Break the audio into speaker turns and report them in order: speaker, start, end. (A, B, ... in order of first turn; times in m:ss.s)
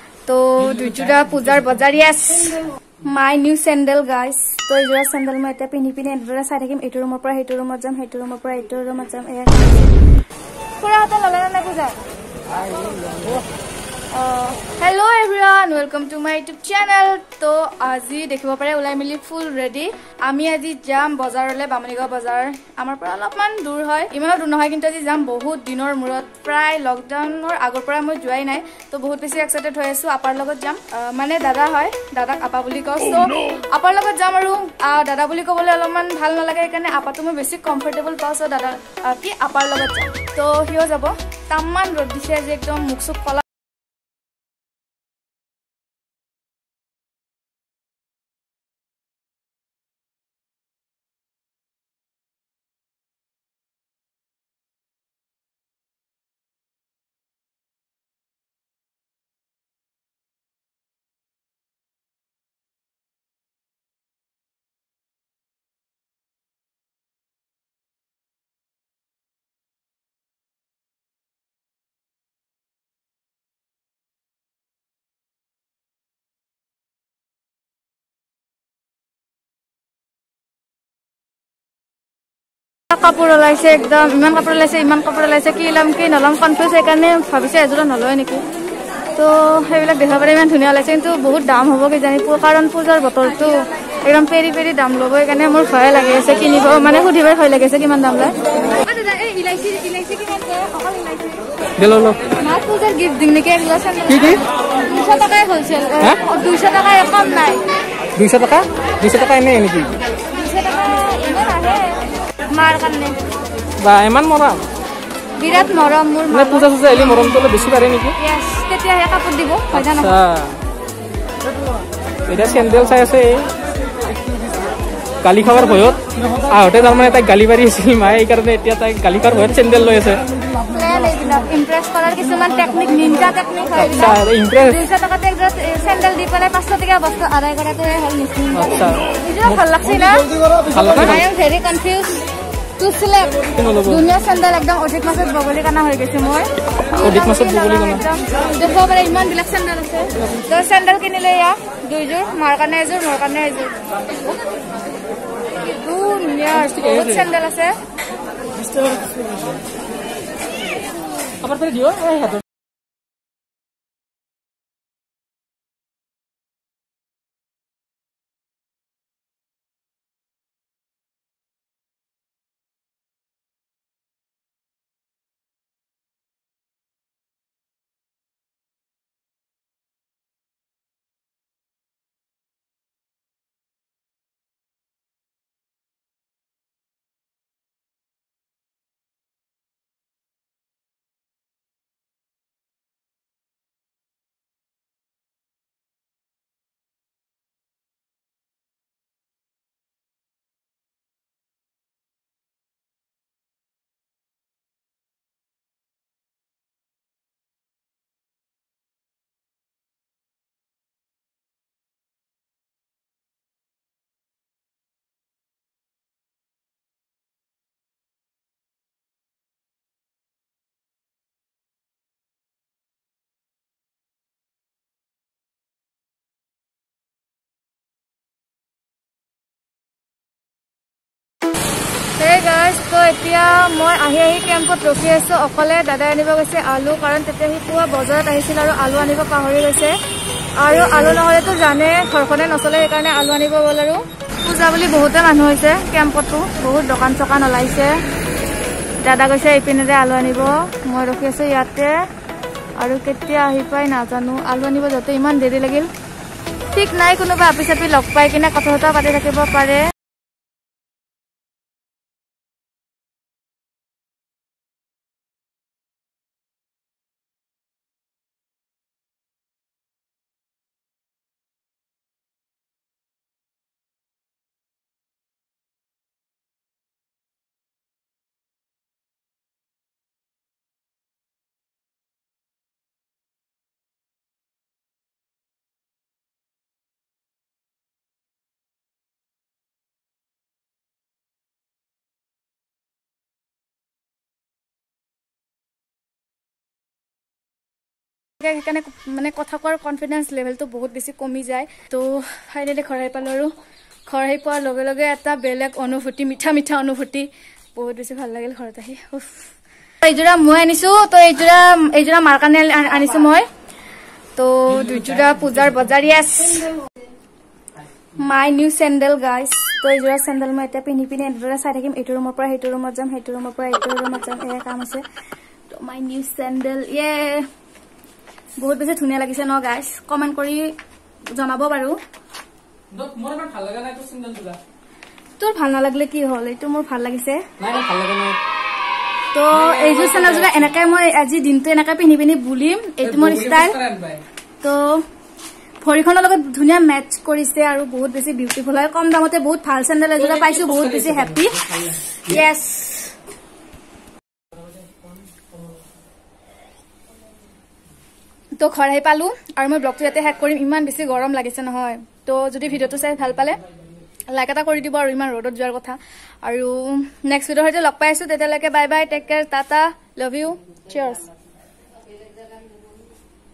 0:00.2-0:10.0 A
0:00.8-0:01.2 B
0:10.8-0:12.0 A
0:14.1-0:43.4 A
1:22.9-1:28.4 A
1:29.2-1:41.4 A
1:41.8-1:42.2 B
1:42.3-1:47.7 A
1:44.1-1:44.4 B
1:48.1-1:50.0 B
1:50.3-1:53.2 A
1:53.8-1:54.7 B
1:55.4-1:57.2 A
1:56.3-1:58.2 B
1:58.2-2:00.2 A
1:59.7-2:00.6 B
2:02.3-2:03.5 B
2:05.2-2:10.2 B
2:10.6-2:20.3 A
2:13.7-2:14.8 B
2:18.5-2:19.6 B
2:20.7-2:21.2 B
2:21.0-2:22.2 A
2:22.8-2:33.8 A
2:23.5-2:24.1 B
2:27.0-2:28.1 B
2:35.6-2:37.8 A
2:36.7-2:37.2 B
2:41.4-2:42.4 B
3:52.2-4:00.0 A
4:00.6-4:08.0 A
4:09.0-4:12.0 A
4:12.8-4:15.9 A
4:16.7-4:19.9 A
4:58.4-5:03.5 A
5:04.1-5:13.5 A
5:14.4-5:16.8 A
5:14.7-5:15.7 B
5:18.1-5:25.0 A
5:25.7-5:27.5 A
5:28.6-5:30.8 A
5:31.3-5:32.0 A
5:32.9-5:34.6 B
5:35.4-5:37.5 A
5:37.6-5:38.4 B
5:39.3-5:43.8 A
5:39.5-5:40.7 B
5:43.0-5:44.2 B
5:44.6-5:45.0 A
5:45.8-5:51.6 A
5:50.2-5:52.4 B
5:52.2-5:53.1 A
5:58.6-6:03.6 A
6:04.2-6:11.3 A